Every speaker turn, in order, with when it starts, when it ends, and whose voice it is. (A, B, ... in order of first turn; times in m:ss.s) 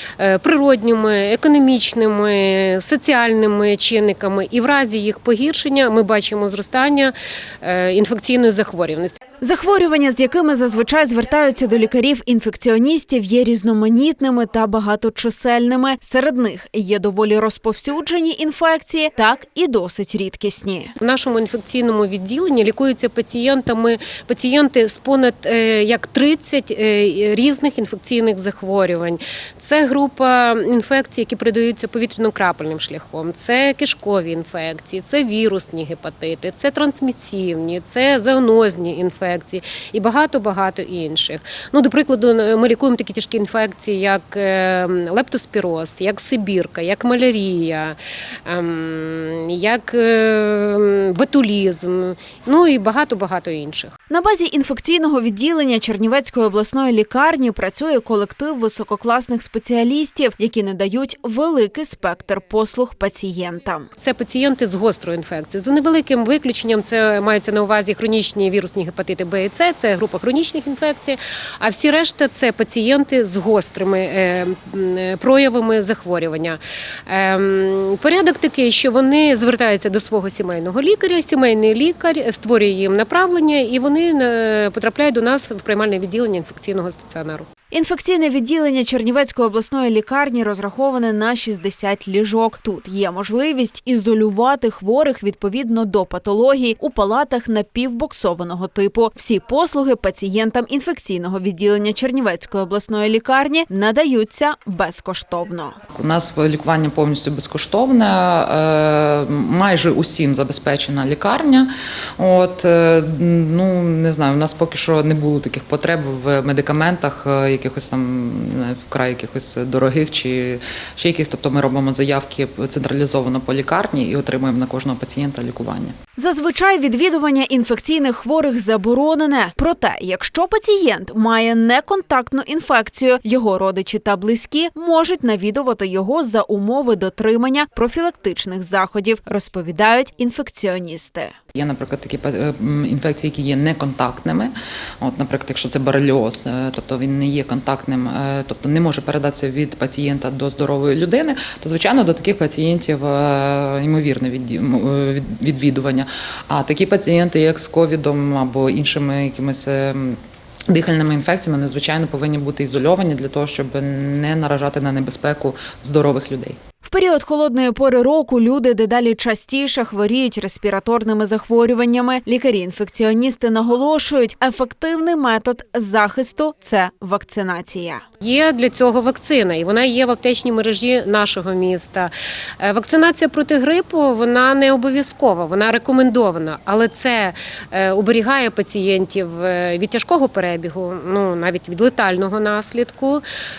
0:00.2-0:09.2 A
0:09.4-0:20.9 B
0:21.0-0:53.9 A
0:54.1-1:03.9 B
1:04.0-1:27.5 A
1:27.7-1:45.8 B
1:45.9-2:05.9 C
2:06.2-2:21.4 B
2:21.5-2:46.6 C
2:46.8-2:58.0 B
2:58.2-3:13.2 A